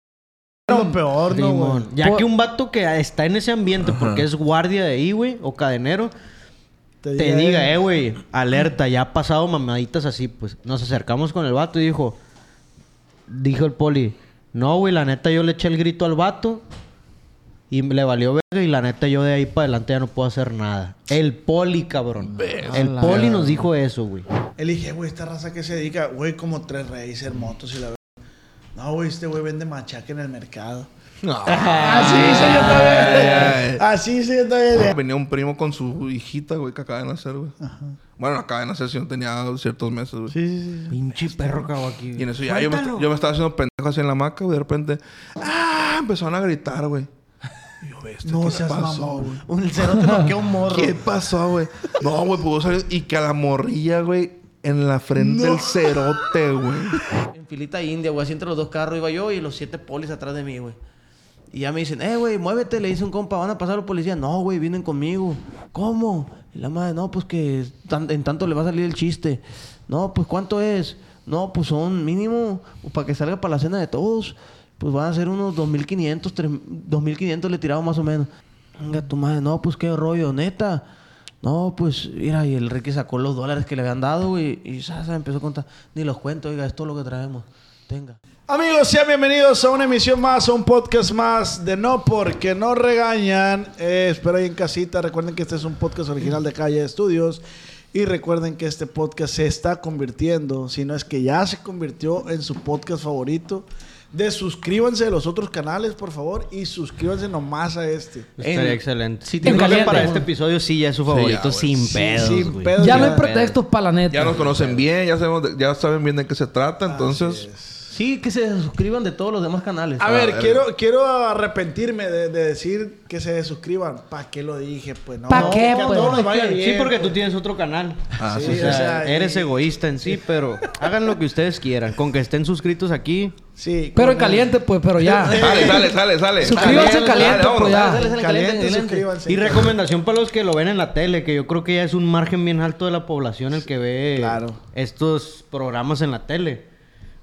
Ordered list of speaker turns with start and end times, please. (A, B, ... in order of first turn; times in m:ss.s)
0:00.7-0:01.9 A
0:01.3-0:06.1 B
0:03.9-0:04.2 C
0:07.0-0:07.8 A
0:07.2-0:12.2 B
0:13.3-0:16.6 B
0:17.7-0:24.3 B
0:22.3-0:22.9 C
0:22.7-0:23.4 D
0:24.6-0:28.0 A
0:28.8-0:30.9 A
0:31.2-0:33.8 C
0:31.6-0:34.9 A
0:31.8-0:33.4 E
0:34.9-0:37.6 C
0:37.6-0:38.0 A
0:38.2-0:40.4 C
0:40.3-0:41.0 A
0:40.9-0:43.1 B
0:42.2-0:47.1 C
0:47.9-0:49.3 C
0:48.2-0:49.4 A
0:49.5-0:51.0 D
0:50.0-0:50.3 E
0:50.7-0:57.0 C
0:55.2-0:55.7 A
0:57.3-1:00.8 D
1:01.5-1:20.8 D
1:21.4-1:28.2 D
1:28.5-1:48.3 A
1:48.4-1:53.6 B
1:48.4-1:50.3 D
1:49.4-1:50.1 E
1:51.1-1:52.0 C
1:51.8-1:53.3 A
1:52.8-1:54.4 E
1:54.1-1:57.5 C
1:54.4-1:54.8 B
1:56.9-1:57.9 A
1:57.9-2:00.1 D
2:00.0-2:07.2 A
2:00.0-2:00.6 C
2:05.3-2:06.3 E
2:05.3-2:06.6 D
2:06.5-2:13.4 B
2:08.2-2:08.9 C
2:08.2-2:09.6 A
2:13.6-2:14.6 A
2:14.0-2:15.4 E
2:15.1-2:15.9 A
2:15.2-2:19.1 D
2:15.4-2:17.9 C
2:16.4-2:18.0 E
2:17.8-2:19.8 A
2:19.3-2:26.7 B
2:24.2-2:24.6 A